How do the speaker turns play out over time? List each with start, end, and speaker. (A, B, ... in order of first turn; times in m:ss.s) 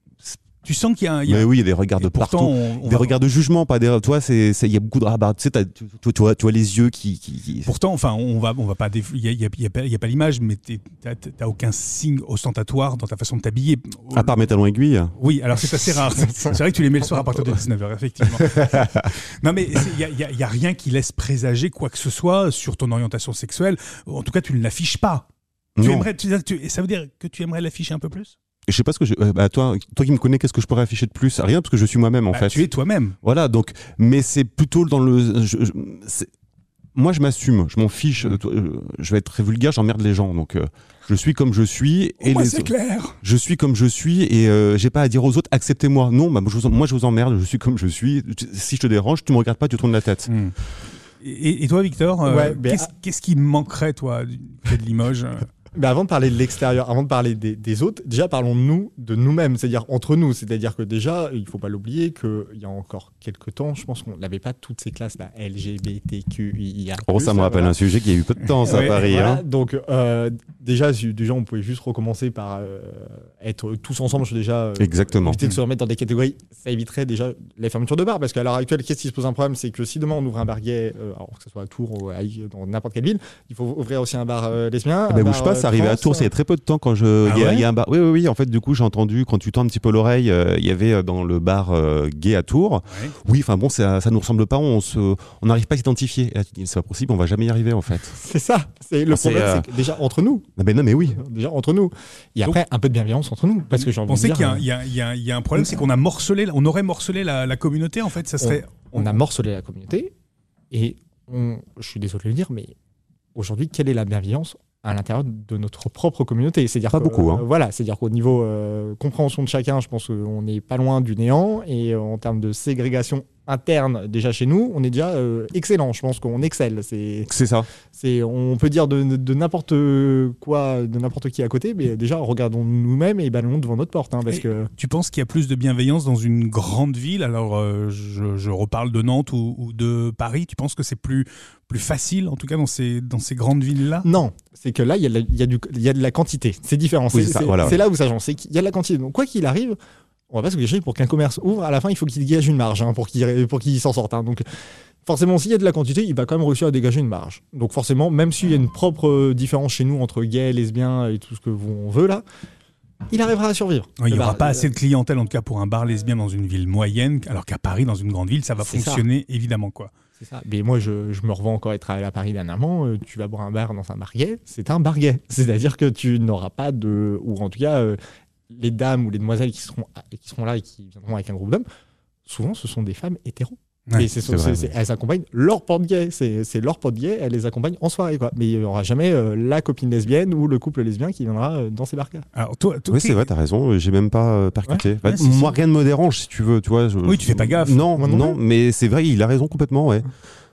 0:00.6-0:03.2 A
0:01.3-0:07.7 B
0:07.6-0:14.3 A
0:14.1-0:15.1 B
0:15.2-0:25.2 A
0:18.4-0:19.1 B
0:25.8-0:26.1 B
0:25.8-0:28.3 A
0:28.7-0:32.7 B
0:32.3-0:33.2 A
0:33.2-0:36.3 B
0:36.9-0:50.3 B
0:42.2-0:43.2 A
0:50.3-0:50.5 A
0:51.2-0:55.5 A
0:52.2-0:52.9 C
0:55.7-1:07.8 C
1:07.0-1:09.4 B
1:08.6-1:09.0 A
1:08.7-1:26.3 C
1:14.8-1:15.4 B
1:25.1-1:38.2 B
1:27.2-1:27.6 A
1:32.9-1:33.1 A
1:38.1-1:40.5 C
1:39.1-1:39.7 B
1:40.6-1:41.2 B
1:41.1-1:44.6 C
1:43.7-1:49.1 A
1:48.4-1:50.1 C
1:50.7-1:52.7 C
1:53.3-2:07.3 C
1:56.9-1:57.4 B
2:07.3-2:07.7 B
2:07.9-2:14.7 C
2:14.3-2:24.1 A
2:24.0-2:29.8 C
2:27.1-2:27.8 B
2:30.3-2:34.4 C
2:35.0-2:42.2 C
2:43.1-2:44.7 C
2:44.0-2:49.9 A
2:48.6-2:49.0 C
2:50.2-2:58.0 C
2:58.5-3:01.6 C
3:02.2-3:12.2 C
3:04.2-3:04.7 B
3:12.3-3:13.2 A
3:12.9-3:20.1 B
3:15.0-3:15.5 A
3:17.0-3:17.9 A
3:18.0-3:18.4 C